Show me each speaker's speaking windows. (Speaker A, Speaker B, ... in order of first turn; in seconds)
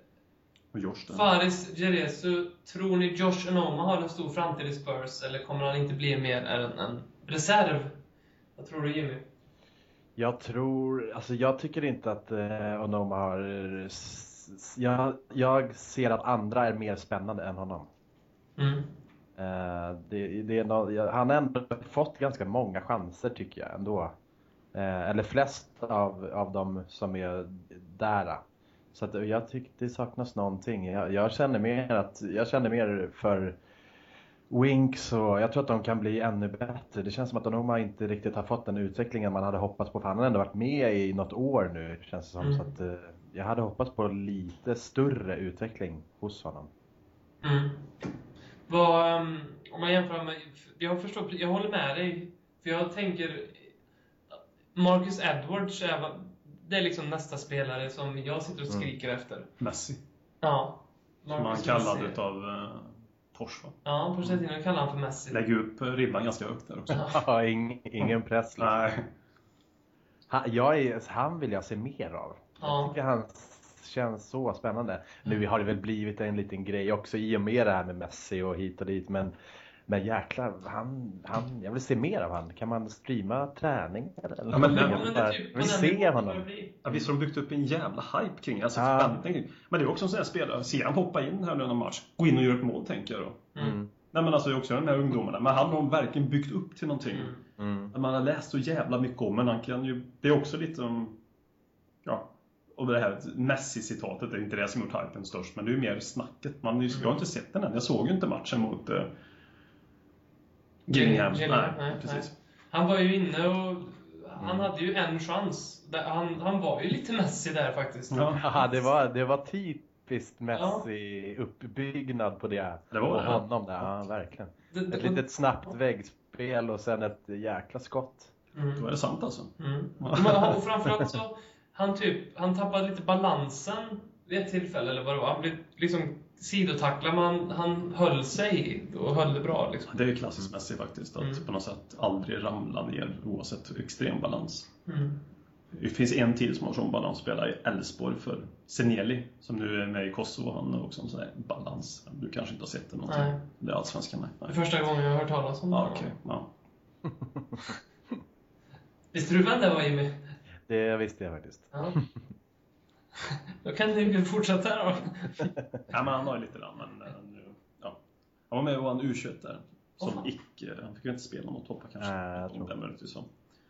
Speaker A: 0.7-1.3, 59.6-60.0, 61.3-64.4, 65.3-67.0, 68.0-69.1, 84.5-85.2, 86.8-93.5, 94.1-97.3, 97.9-101.2, 102.0-109.1, 110.9-112.3, 118.1-118.4, 122.9-123.5, 128.8-130.6, 139.9-144.7, 145.7-154.6, 155.7-156.5, 165.9-168.0, 168.5-173.3
Speaker B: 1.1-8.0, 8.6-9.3, 18.6-18.9, 42.4-42.7, 47.4-47.9, 48.7-53.7, 54.8-59.5, 60.4-62.2, 63.9-65.4, 66.9-67.2, 72.6-73.0, 84.6-86.8, 97.1-97.4, 110.9-118.9, 120.5-120.9, 124.7-125.7, 128.6-128.8, 129.6-139.9, 141.2-141.4, 144.9-145.2, 153.1-153.4, 154.5-156.1, 159.1-160.2, 161.7-162.0, 163.3-165.5, 170.0-170.3
Speaker C: 10.2-17.9, 19.4-24.1, 24.7-28.4, 28.9-33.6, 34.5-46.7, 67.1-68.9, 70.3-79.3, 79.9-87.1, 88.8-89.2, 93.6-93.9, 97.6-97.9, 118.4-128.3, 160.7-162.1, 172.0-172.7